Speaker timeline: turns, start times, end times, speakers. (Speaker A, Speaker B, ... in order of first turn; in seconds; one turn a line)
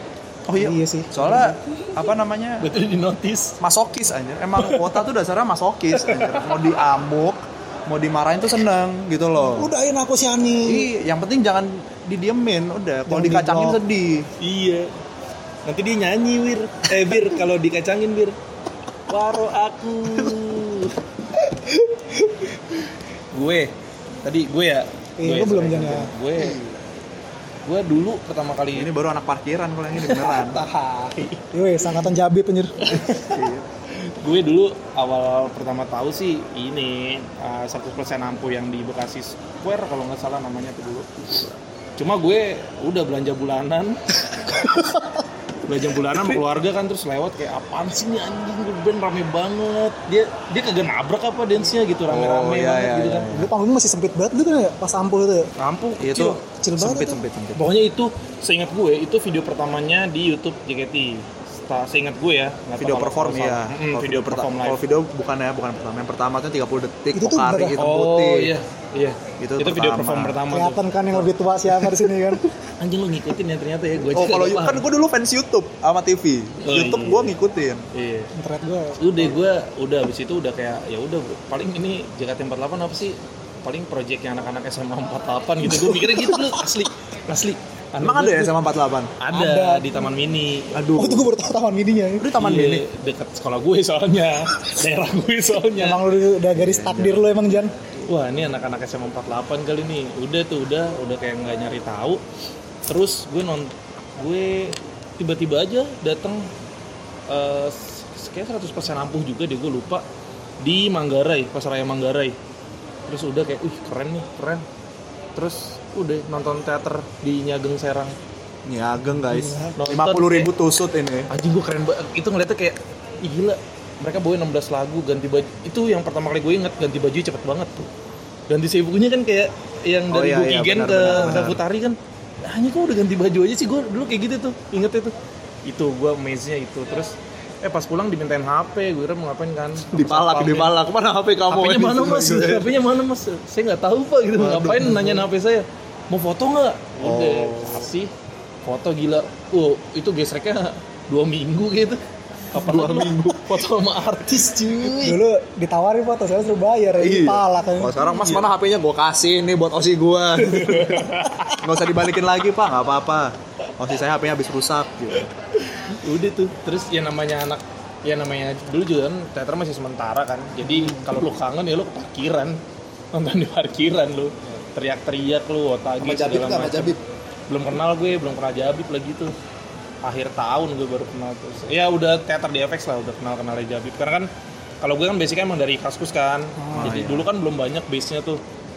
Speaker A: 0.5-2.7
Speaker B: 0.6-1.6
Speaker C: 2.6-3.6
Speaker A: 3.6-9.7
Speaker C: 4.6-5.0
Speaker C: 5.9-6.5
Speaker B: 9.5-10.9
Speaker A: 10.6-14.3
Speaker B: 13.1-13.8
Speaker C: 14.4-14.9
Speaker C: 15.7-18.4
Speaker C: 19.1-21.0
Speaker B: 21.5-22.4
Speaker C: 23.3-23.7
Speaker C: 24.2-26.6
Speaker B: 25.2-26.1
Speaker A: 26.4-26.8
Speaker C: 27.6-28.9
Speaker A: 28.7-30.6
Speaker C: 29.9-32.0
Speaker B: 31.5-33.2
Speaker C: 32.9-33.4
Speaker A: 32.9-33.6
Speaker C: 34.0-45.0
Speaker B: 44.7-45.2
Speaker C: 45.6-53.4
Speaker A: 52.1-53.5
Speaker B: 53.3-55.5
Speaker C: 55.6-56.4
Speaker A: 56.0-57.7
Speaker B: 56.5-57.2
Speaker C: 57.5-64.8
Speaker A: 62.8-68.5
Speaker B: 67.1-67.8
Speaker C: 67.8-71.3
Speaker A: 69.4-70.4
Speaker B: 70.5-72.5
Speaker C: 72.8-74.8
Speaker A: 74.1-77.9
Speaker C: 76.6-77.3
Speaker C: 77.9-78.3
Speaker B: 78.3-79.2
Speaker C: 79.0-88.5
Speaker B: 85.6-86.8
Speaker A: 88.0-89.2
Speaker C: 89.2-90.8
Speaker B: 89.3-90.0
Speaker A: 90.7-91.3
Speaker B: 91.0-92.8
Speaker A: 92.2-92.5
Speaker C: 92.2-96.1
Speaker B: 95.8-97.7
Speaker A: 96.5-97.3
Speaker C: 98.0-102.2
Speaker C: 102.9-106.5
Speaker C: 107.3-110.0
Speaker C: 110.6-112.3
Speaker C: 113.1-114.6
Speaker C: 115.3-118.2
Speaker A: 118.7-121.3
Speaker B: 119.3-119.8
Speaker C: 119.7-120.5
Speaker C: 121.3-127.9
Speaker C: 128.5-135.1
Speaker A: 130.1-131.6
Speaker B: 131.1-131.5
Speaker C: 135.6-140.7
Speaker A: 139.9-142.8
Speaker C: 141.5-148.1
Speaker A: 144.4-145.0
Speaker B: 144.8-145.3
Speaker A: 147.0-147.9
Speaker C: 148.6-152.0
Speaker C: 152.5-155.2
Speaker A: 152.5-153.5
Speaker B: 154.7-158.3
Speaker A: 157.0-165.3
Speaker C: 158.0-158.4
Speaker C: 160.4-161.6
Speaker C: 165.7-172.6
Speaker B: 170.7-171.0
Speaker C: 173.1-176.9
Speaker A: 176.0-177.0
Speaker C: 177.5-179.3
Speaker C: 180.0-184.3
Speaker C: 184.8-188.4
Speaker B: 186.6-186.9
Speaker A: 186.7-187.3